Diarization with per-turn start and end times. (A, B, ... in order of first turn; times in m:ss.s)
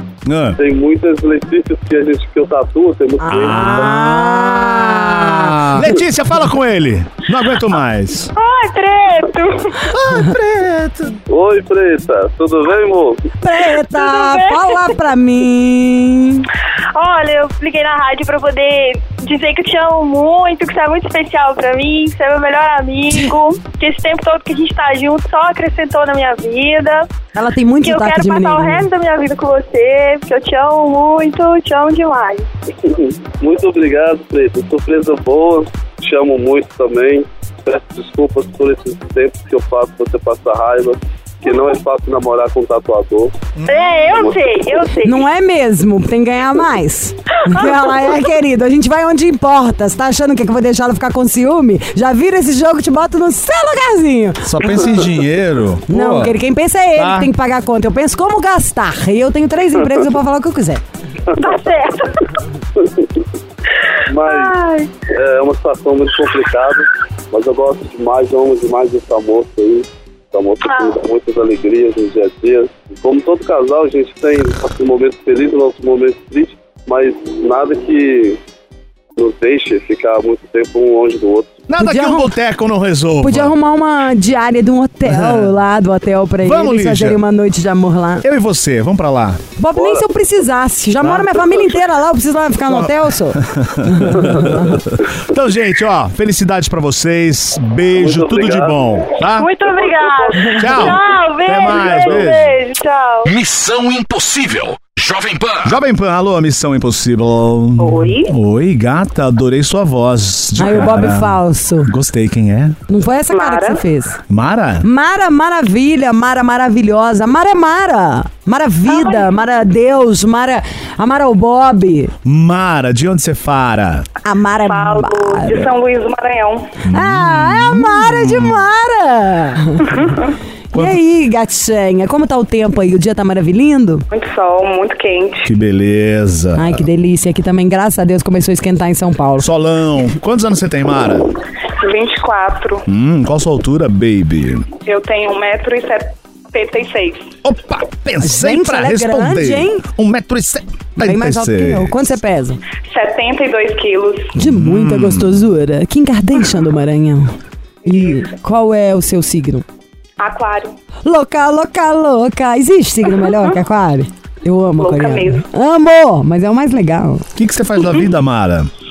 0:00.3-0:00.6 A
0:00.6-0:04.1 B
0:03.2-0:05.7 C
0:03.3-0:08.3 A
0:08.4-0:09.9 D
0:09.9-0:11.2 A
0:11.3-0:13.2 B
0:13.4-0:16.5 C
0:13.8-0:14.8 D
0:16.9-0:27.1 D
0:27.4-0:28.9 C
0:27.8-0:32.5 D
0:32.8-0:43.3 B
0:43.6-0:44.1 A
0:43.6-0:45.3 D
0:45.0-0:55.0 C
0:54.4-0:56.4 A
0:55.9-1:00.8 C
0:57.0-0:57.3 A
1:01.4-1:02.4 D
1:04.1-1:04.6 B
1:04.2-1:04.9 D
1:05.1-1:18.4 B
1:10.6-1:11.0 D
1:19.2-1:21.6 B
1:21.7-1:23.5 A
1:21.8-1:22.3 C
1:23.2-1:28.3 C
1:25.1-1:25.5 A
1:26.4-1:27.2 A
1:28.2-1:29.4 A
1:29.6-1:34.8 C
1:29.7-1:30.0 B
1:31.0-1:31.4 A
1:32.7-1:39.5 A
1:37.9-1:42.3 B
1:39.3-1:43.3 D
1:40.6-1:42.5 A
1:43.2-1:45.8 E
1:45.6-1:52.8 A
1:47.8-1:48.3 F
1:50.6-1:51.9 C
1:52.9-1:54.2 C
1:53.3-1:53.8 F
1:54.3-1:54.9 A
1:54.8-2:02.1 C
1:58.9-1:59.3 F
2:02.2-2:04.1 A
2:04.2-2:05.7 C
2:04.6-2:06.8 F
2:06.8-2:08.7 A
2:06.9-2:10.2 C
2:10.7-2:14.0 C
2:10.7-2:11.0 A
2:14.1-2:15.5 F
2:15.4-2:16.8 A
2:16.6-2:19.5 C
2:19.4-2:21.3 A
2:21.8-2:22.9 F
2:22.9-2:24.7 A
2:24.8-2:27.3 F
2:27.4-2:32.2 A
2:28.2-2:29.8 C
2:31.0-2:32.6 C
2:32.8-2:34.3 F
2:34.4-2:39.6 C
2:34.4-2:35.4 A
2:40.2-2:40.8 F
2:41.0-2:47.3 C
2:44.8-2:45.4 F
2:47.4-2:48.7 A